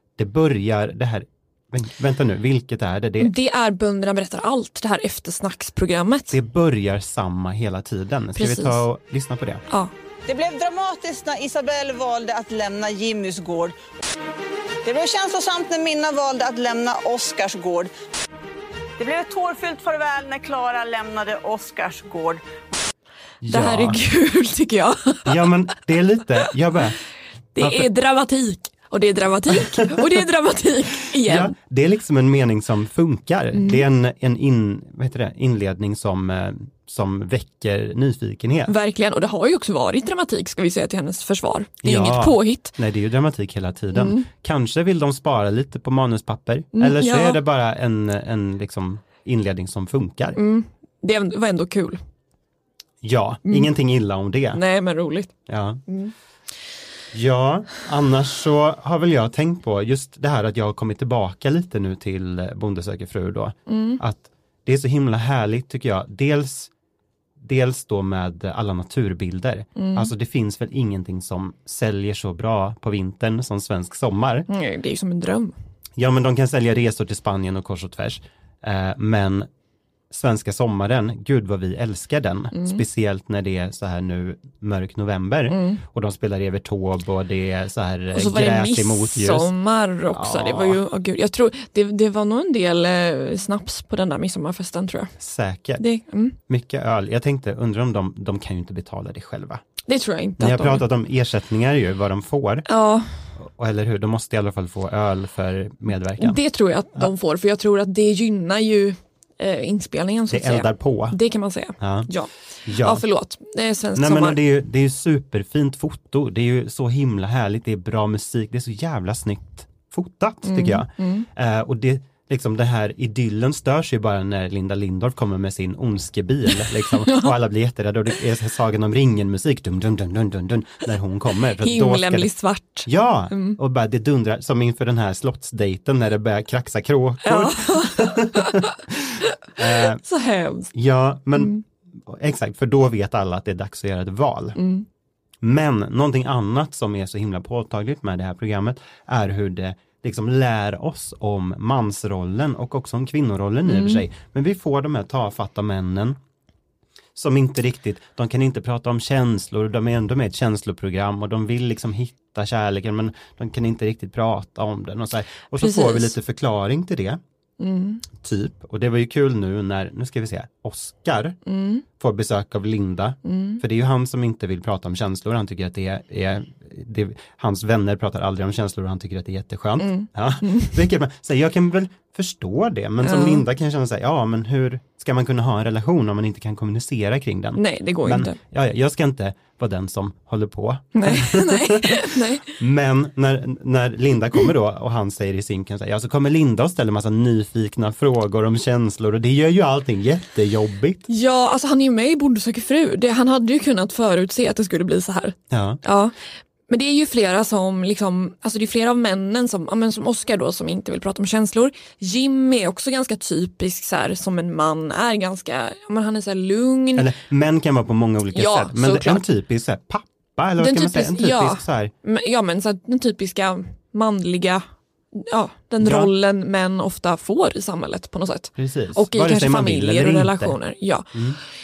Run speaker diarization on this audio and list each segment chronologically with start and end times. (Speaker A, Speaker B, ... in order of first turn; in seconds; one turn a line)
Speaker A: 0.2-3.3
Speaker B: 3.2-6.4
Speaker A: 6.3-9.6
Speaker B: 8.3-8.8
Speaker C: 10.3-13.7
Speaker C: 14.8-17.9
Speaker C: 19.0-22.4
Speaker A: 23.4-24.0
Speaker B: 23.5-25.3
Speaker A: 25.2-26.9
Speaker B: 27.5-31.5
Speaker A: 27.6-27.9
Speaker A: 29.7-30.2
Speaker A: 31.2-38.7
Speaker B: 33.5-33.8
Speaker B: 38.7-42.7
Speaker A: 41.8-50.4
Speaker B: 43.9-44.3
Speaker B: 46.7-47.4
Speaker B: 50.4-52.0
Speaker A: 53.0-54.6
Speaker B: 54.5-55.3
Speaker A: 55.5-55.8
Speaker B: 55.9-56.1
Speaker A: 57.1-66.7
Speaker B: 63.7-64.0
Speaker A: 67.4-74.5
Speaker B: 69.8-70.1
Speaker B: 74.5-75.5
Speaker A: 76.0-79.5
Speaker A: 80.1-89.5
Speaker B: 82.5-82.8
Speaker B: 85.5-85.8
Speaker B: 88.1-95.1
Speaker A: 90.1-90.8
Speaker A: 95.2-95.8
Speaker B: 95.8-96.3
Speaker A: 96.5-99.6
Speaker B: 99.9-100.8
Speaker A: 100.4-102.7
Speaker B: 102.7-103.1
Speaker A: 103.4-106.4
Speaker B: 106.2-112.3
Speaker A: 110.3-111.2
Speaker A: 111.8-112.1
Speaker A: 112.7-113.0
Speaker B: 112.8-114.4
Speaker A: 113.9-132.3
Speaker B: 120.4-121.3
Speaker B: 126.8-127.3
Speaker B: 131.6-133.6
Speaker A: 132.8-140.0
Speaker B: 137.2-138.7
Speaker B: 140.0-140.7
Speaker A: 140.7-144.6
Speaker B: 141.3-141.6
Speaker B: 144.6-144.8
Speaker A: 145.4-156.2
Speaker B: 153.7-154.0
Speaker A: 157.2-167.2
Speaker B: 165.6-166.2
Speaker B: 167.6-168.1
Speaker A: 168.2-171.4
Speaker B: 171.4-171.8
Speaker A: 172.0-201.1
Speaker B: 173.2-173.6
Speaker B: 179.8-180.8
Speaker B: 183.0-183.4
Speaker B: 187.5-188.4
Speaker B: 190.9-192.5
Speaker B: 201.1-206.1
Speaker A: 205.5-205.8
Speaker B: 206.7-217.1
Speaker A: 216.9-221.9
Speaker B: 218.3-219.2
Speaker B: 220.6-231.1
Speaker A: 225.8-226.1
Speaker A: 228.6-230.6
Speaker A: 231.1-231.4